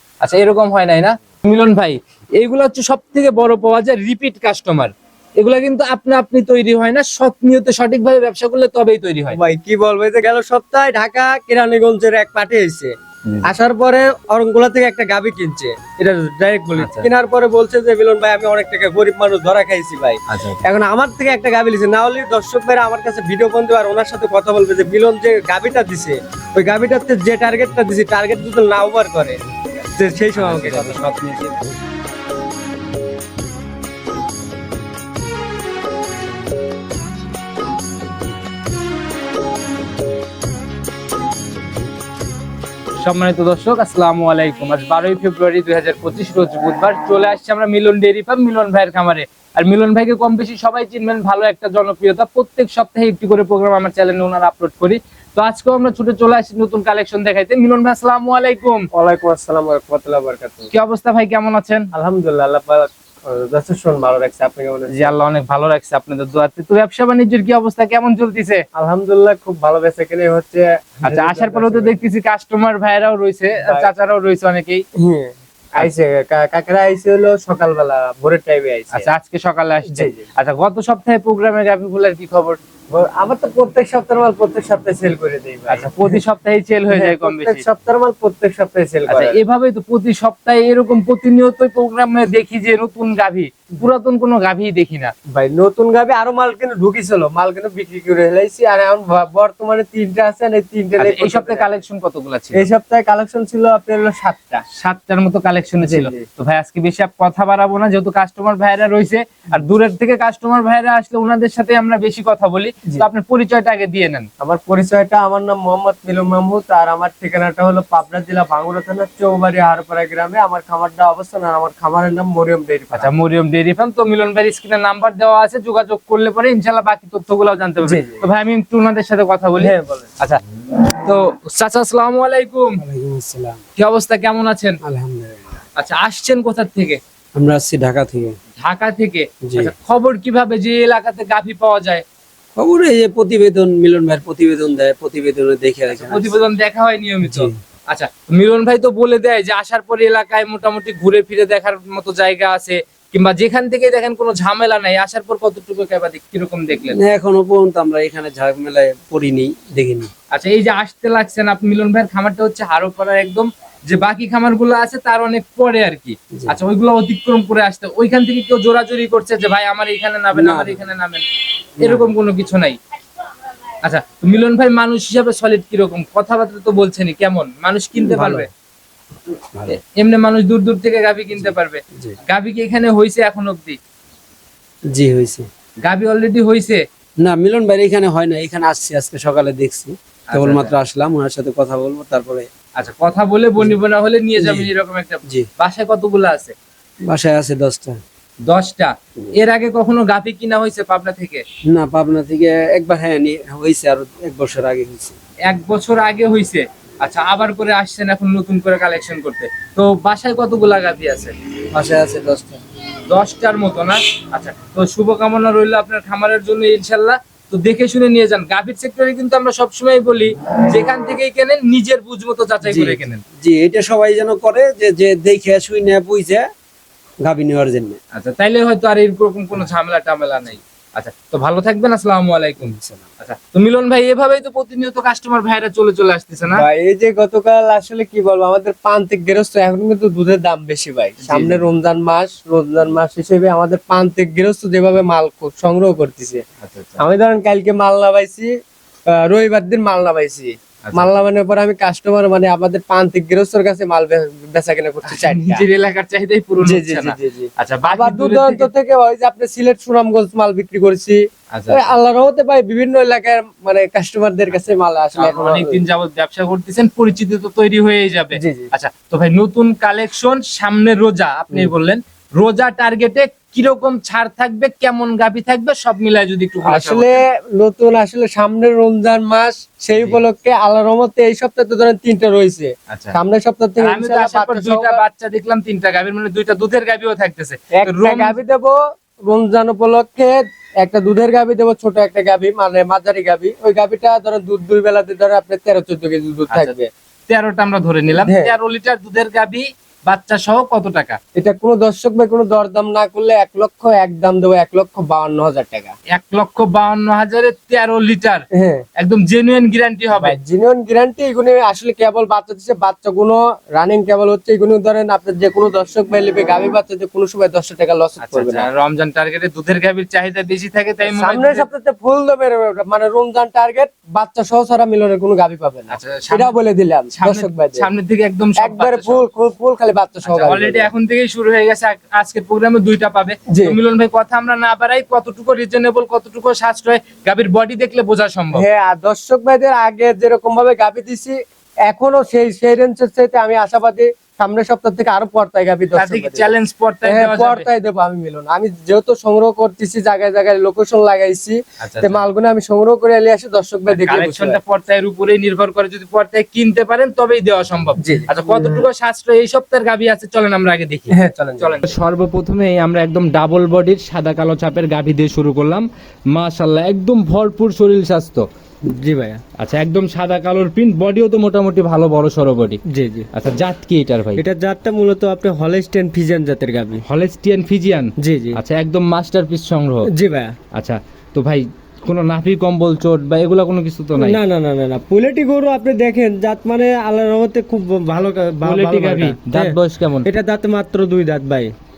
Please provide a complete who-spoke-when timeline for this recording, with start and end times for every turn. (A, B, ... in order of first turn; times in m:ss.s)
0:00.2-0:09.4 A
0:09.3-0:12.9 B
0:13.4-0:29.4 B
0:16.8-0:17.1 A
0:20.3-0:20.6 A
0:30.0-0:31.1 B
0:30.3-0:31.6 A
0:43.0-0:58.9 A
0:58.9-1:00.7 B
1:00.7-1:01.9 A
1:01.9-1:05.1 B
1:04.9-1:08.6 A
1:08.7-1:12.0 B
1:11.0-1:14.8 A
1:13.6-1:13.9 B
1:15.0-1:19.0 B
1:18.9-1:22.6 A
1:19.9-1:20.2 B
1:22.9-1:26.2 B
1:25.7-1:27.6 A
1:26.9-1:29.4 B
1:29.1-1:35.1 A
1:35.3-1:41.6 B
1:41.0-1:42.7 A
1:42.5-1:44.6 B
1:44.7-1:54.3 A
1:45.8-1:46.2 B
1:54.4-2:03.1 B
2:02.9-2:10.4 A
2:07.8-2:08.2 B
2:09.6-2:10.1 B
2:11.0-2:12.8 A
2:12.8-2:13.6 C
2:13.8-2:14.8 A
2:14.8-2:15.6 C
2:15.8-2:17.0 A
2:17.3-2:18.4 C
2:18.6-2:22.0 A
2:19.4-2:19.7 C
2:22.6-2:26.4 C
2:25.9-2:37.0 A
2:27.2-2:27.5 C
2:36.9-2:40.1 C
2:40.3-2:51.2 A
2:50.3-2:50.8 C
2:51.8-2:52.1 C
2:51.8-2:52.8 A
2:53.8-2:58.5 A
2:58.0-2:58.5 C
2:59.7-3:03.8 A
3:04.9-3:05.5 C
3:05.8-3:06.8 A
3:07.2-3:12.5 C
3:10.3-3:10.8 A
3:12.8-3:16.5 A
3:14.4-3:14.7 C
3:17.0-3:18.0 C
3:18.4-3:21.4 A
3:21.7-3:25.1 C
3:25.5-3:31.3 A
3:31.7-3:32.6 C
3:33.1-3:43.2 A
3:42.6-3:46.5 C
3:47.2-3:48.0 C
3:48.1-3:56.6 A
3:52.6-3:53.0 C
3:56.5-4:06.4 B
4:01.2-4:01.6 A
4:06.6-4:07.0 A
4:07.0-4:08.5 B
4:09.1-4:15.6 B
4:10.8-4:11.1 A
4:15.1-4:18.7 A
4:16.6-4:25.8 B
4:21.5-4:21.9 A
4:25.1-4:37.2 A
4:28.3-4:28.7 B
4:36.6-4:45.0 B
4:42.9-4:43.1 A
4:43.8-4:48.4 A
4:47.7-4:56.9 B
4:56.5-4:56.7 A
4:57.3-5:01.2 A
4:58.1-4:58.5 B
5:01.3-5:05.9 B
5:06.1-5:08.4 A
5:08.5-5:08.8 B
5:09.0-5:10.4 A
5:10.1-5:18.7 B
5:18.2-5:21.7 A
5:21.0-5:27.9 B
5:25.9-5:26.5 A
5:27.1-5:29.2 A
5:28.6-5:30.9 B
5:30.2-5:38.6 A
5:33.5-5:33.8 B
5:38.5-5:46.5 B
5:45.9-5:47.7 A
5:47.0-5:54.6 B
5:51.8-5:52.2 A
5:53.9-6:08.4 A
5:58.0-5:58.8 B
6:01.1-6:01.8 B
6:08.8-6:09.4 B
6:09.6-6:12.8 A
6:12.9-6:13.3 B
6:13.3-6:14.4 A
6:14.4-6:17.0 B
6:17.0-6:20.1 A
6:18.2-6:18.6 B
6:20.1-6:20.6 B
6:20.7-6:24.4 A
6:24.2-6:31.7 B
6:28.6-6:30.2 A